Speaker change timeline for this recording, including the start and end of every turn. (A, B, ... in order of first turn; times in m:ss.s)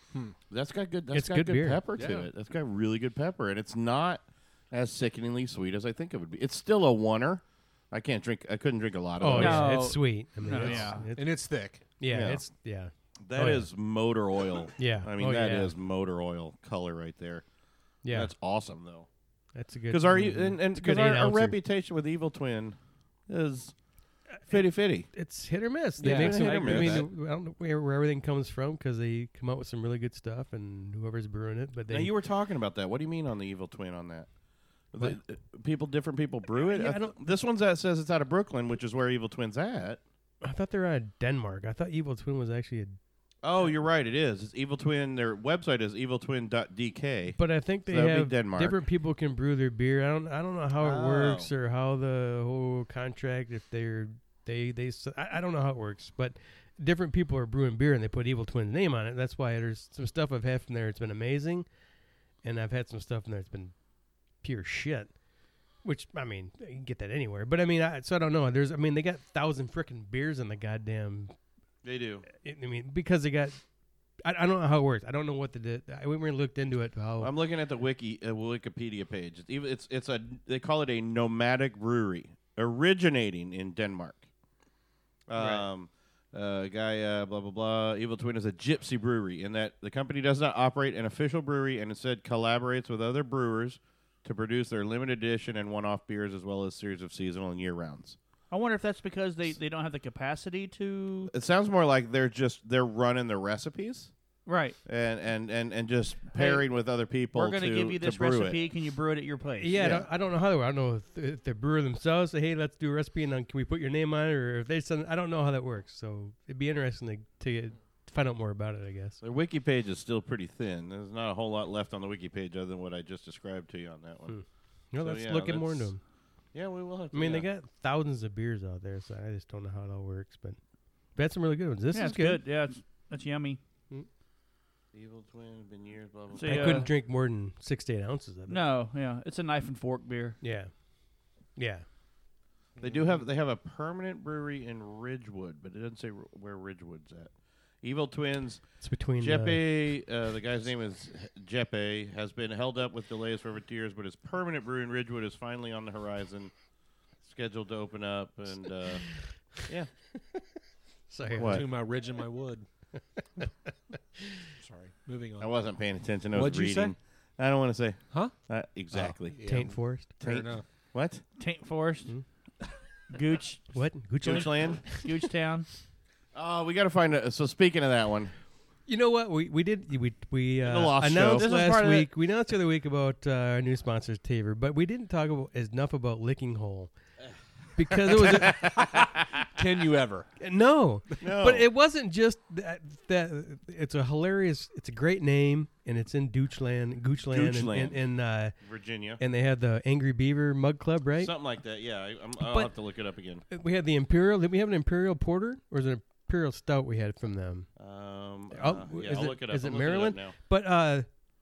0:00.5-0:09.9 A
0:01.1-0:01.8 B
0:02.0-0:02.3 C
0:09.2-0:11.4 B
0:09.3-0:11.0 D
0:10.6-0:11.0 A
0:11.2-0:11.8 C
0:12.0-0:13.7 B
0:12.1-0:12.5 A
0:13.2-0:17.4 A
0:14.8-0:15.7 B
0:18.0-0:18.3 B
0:18.1-0:19.1 A
0:19.6-0:21.6 B
0:19.9-0:22.8 A
0:23.3-0:23.7 A
0:24.4-0:32.1 B
0:24.5-0:25.1 A
0:26.0-0:27.1 C
0:26.0-0:27.1 A
0:31.9-0:34.3 A
0:34.9-0:40.0 A
0:36.5-0:37.3 B
0:40.4-0:43.0 B
0:43.4-0:48.8 A
0:47.4-1:01.7 B
0:50.8-0:51.5 A
1:02.4-1:03.7 B
1:04.4-1:05.1 B
1:05.8-1:11.3 B
1:11.8-1:12.3 A
1:12.3-1:13.6 B
1:14.2-1:17.3 B
1:17.2-1:24.2 A
1:25.3-1:38.2 A
1:25.4-1:25.6 D
1:38.5-1:41.3 D
1:41.3-1:44.1 A
1:44.5-1:44.8 D
1:44.9-1:48.6 A
1:46.3-1:46.6 D
1:47.3-1:49.8 D
1:49.6-1:59.2 B
1:49.8-1:50.1 A
1:59.2-2:04.3 A
2:04.3-2:06.0 B
2:05.0-2:05.9 A
2:06.5-2:07.5 A
2:07.1-2:10.6 B
2:11.2-2:12.4 B
2:11.9-2:13.6 D
2:14.9-2:16.9 A
2:16.3-2:16.9 D
2:16.4-2:18.6 B
2:18.5-2:20.4 D
2:20.4-2:20.7 B
2:21.6-2:21.8 B
2:22.8-2:27.3 A
2:27.8-2:36.5 A
2:28.8-2:29.6 B
2:37.2-2:39.9 A
2:41.1-2:41.7 B
2:41.4-2:41.7 A
2:41.4-2:42.6 C
2:43.2-2:43.7 B
2:44.6-2:45.6 C
2:45.4-2:49.4 A
2:46.3-2:47.0 C
2:49.0-2:50.6 C
2:49.4-2:50.1 B
2:50.2-2:51.2 A
2:51.4-2:52.1 D
2:53.1-2:53.6 D
2:53.7-2:55.1 B
2:54.2-2:54.9 A
2:54.3-2:55.7 D
2:56.3-2:58.3 A
2:58.9-3:06.9 B
3:00.6-3:02.1 A
3:07.8-3:08.8 B
3:08.1-3:10.3 C
3:10.4-3:18.6 B
3:11.2-3:11.7 A
3:17.3-3:18.0 A
3:18.6-3:19.2 A
3:19.2-3:21.3 B
3:21.2-3:23.4 A
3:22.4-3:22.7 B
3:23.5-3:27.7 B
3:27.8-3:30.4 A
3:28.5-3:31.1 B